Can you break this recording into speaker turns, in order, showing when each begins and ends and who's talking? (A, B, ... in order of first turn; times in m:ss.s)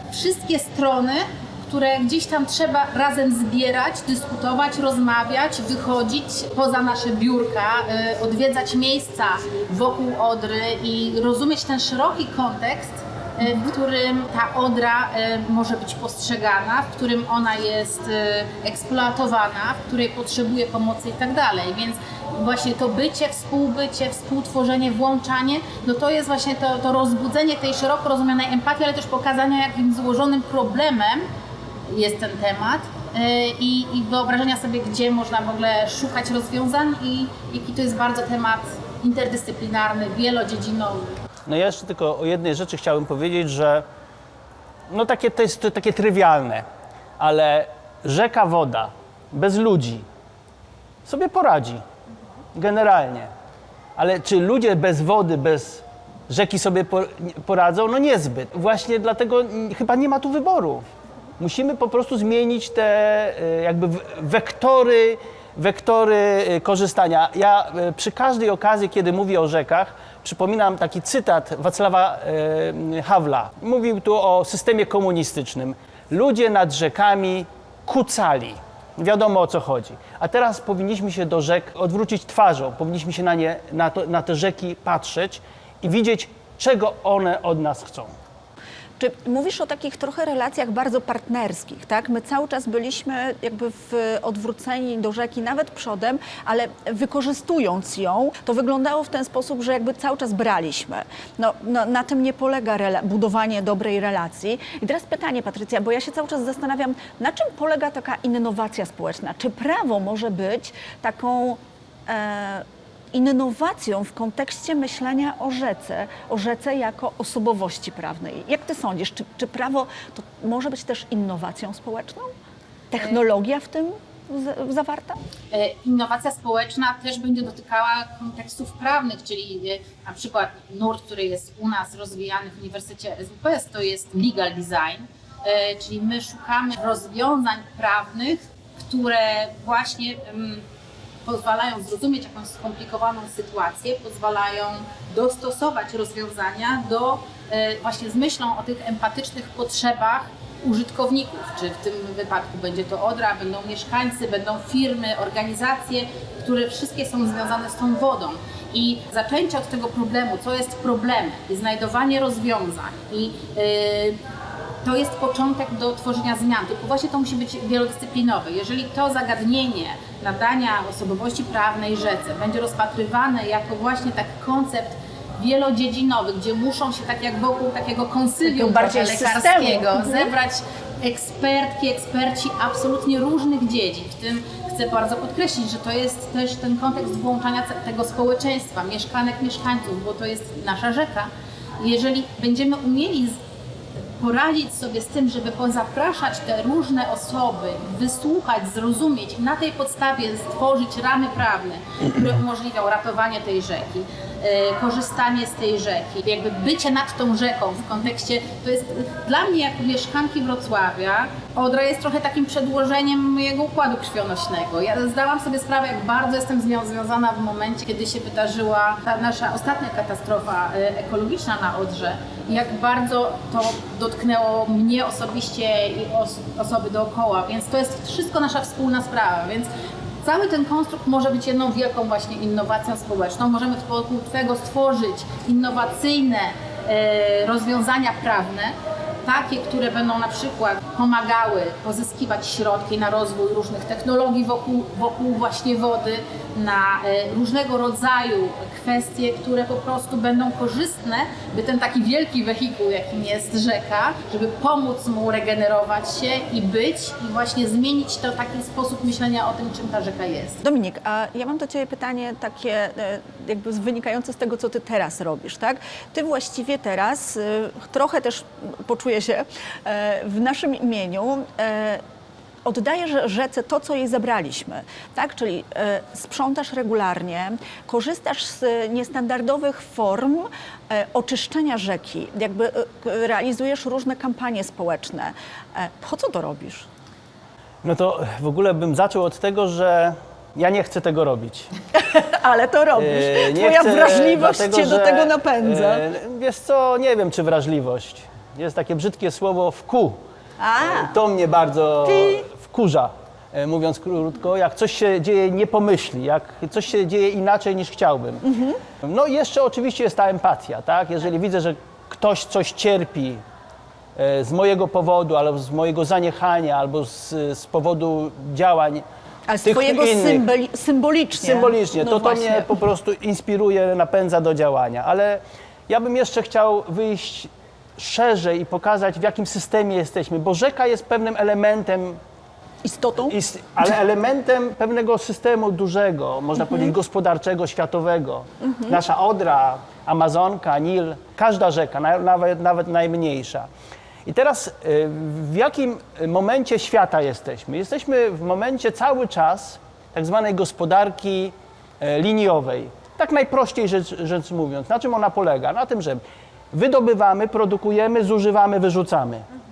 0:00.1-0:31.3 A
0:13.4-0:13.7 B
0:31.9-0:41.2 A
0:41.5-0:43.8 C
0:44.9-0:46.6 C
0:47.2-0:50.0 C
0:51.1-0:51.8 C
0:52.6-0:53.3 C
0:54.0-1:00.8 C
1:01.4-1:28.1 C
1:29.0-2:02.3 B
2:02.9-2:05.2 B
2:05.5-2:20.6 A
2:21.2-2:44.2 A
2:44.8-3:13.4 A
2:58.4-3:00.3 B
3:14.2-3:49.7 A
3:50.2-4:20.6 A
4:20.6-4:32.0 B
4:32.6-4:46.9 B
4:47.8-4:51.7 C
4:51.9-4:56.0 B
4:53.0-5:00.2 C
5:00.6-5:01.2 B
5:00.8-5:08.5 C
5:02.0-5:02.4 B
5:08.4-5:08.8 B
5:09.0-5:13.4 C
5:14.2-5:19.0 C
5:19.5-5:22.7 B
5:19.6-5:20.4 C
5:21.4-5:32.2 C
5:32.8-5:33.3 B
5:33.3-5:43.7 C
5:36.6-5:36.9 B
5:38.7-5:39.0 B
5:44.3-5:59.4 C